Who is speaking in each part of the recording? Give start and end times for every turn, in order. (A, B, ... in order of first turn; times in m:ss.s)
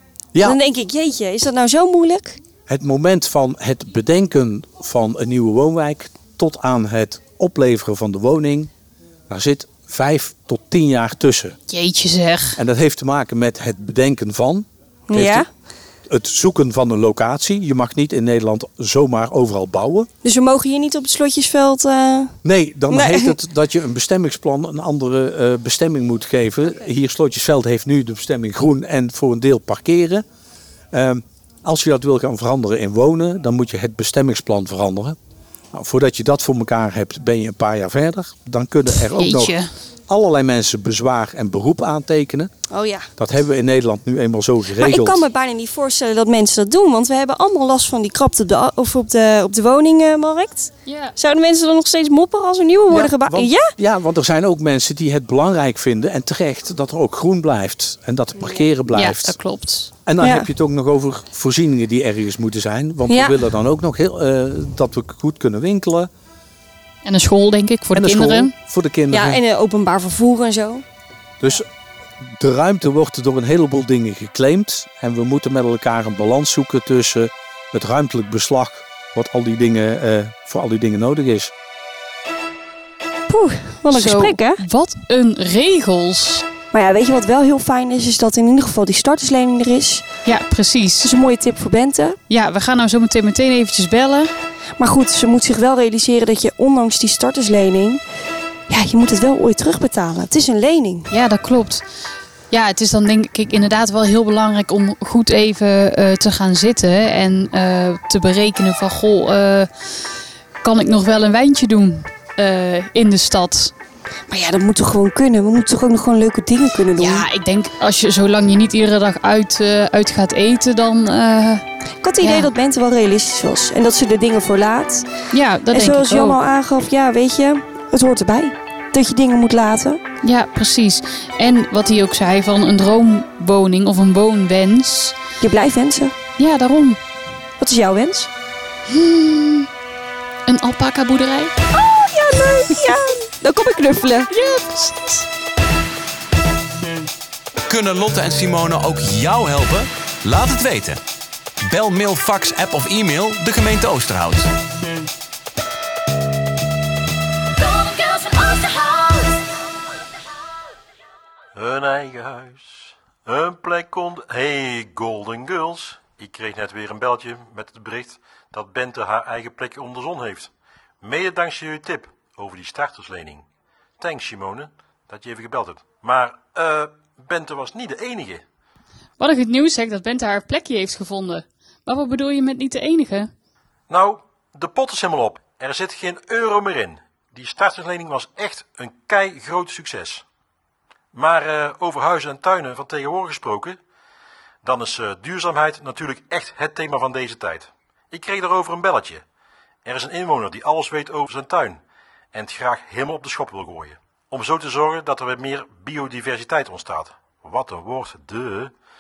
0:00.4-0:02.4 A
0:02.7-0:08.7 B
0:09.3-0:11.6 B
0:11.7-0:12.6 C
0:12.6-0:15.4 B
0:15.1-0:15.5 A
0:16.1-0:20.1 B
0:20.2-0:22.4 A
0:22.4-0:30.2 B
0:22.9-0:23.3 A
0:30.9-0:35.2 B
0:35.7-0:39.6 B
0:39.1-0:39.7 C
0:40.1-0:42.5 B
0:42.7-0:43.1 A
0:43.2-0:45.2 B
0:44.8-0:53.7 A
0:50.8-0:51.1 C
0:52.9-0:59.4 B
0:58.9-0:59.9 C
1:00.0-1:06.1 B
1:00.2-1:00.5 A
1:03.1-1:03.4 A
1:07.0-1:08.5 C
1:07.9-1:09.4 B
1:09.1-1:10.8 A
1:11.4-1:11.7 B
1:12.2-1:21.5 B
1:23.3-1:24.6 A
1:23.9-1:26.4 C
1:26.7-1:30.0 A
1:30.2-1:31.1 C
1:31.0-1:32.2 A
1:32.3-1:34.3 C
1:34.8-1:38.0 A
1:38.7-1:41.1 A
1:41.1-1:41.8 C
1:42.5-1:49.7 C
1:50.6-1:53.7 C
1:54.3-1:57.3 A
1:57.0-2:01.6 C
2:02.0-2:05.1 A
2:02.2-2:02.5 C
2:05.3-2:06.4 C
2:05.7-2:10.0 A
2:10.2-2:15.2 C
2:15.4-2:16.1 A
2:16.4-2:17.0 C
2:17.6-2:18.3 A
2:18.9-2:19.7 C
2:20.5-2:21.5 C
2:21.7-2:24.3 A
2:24.3-2:25.2 C
2:27.7-2:31.0 D
2:31.6-2:34.5 D
2:37.6-2:39.6 E
2:41.6-2:50.5 F
2:51.0-2:53.4 F
2:54.0-2:58.4 F
2:59.2-3:03.3 C
3:03.9-3:10.2 F
3:11.1-3:13.8 F
3:14.6-3:19.2 F
3:19.8-3:21.8 F
3:22.3-3:28.7 F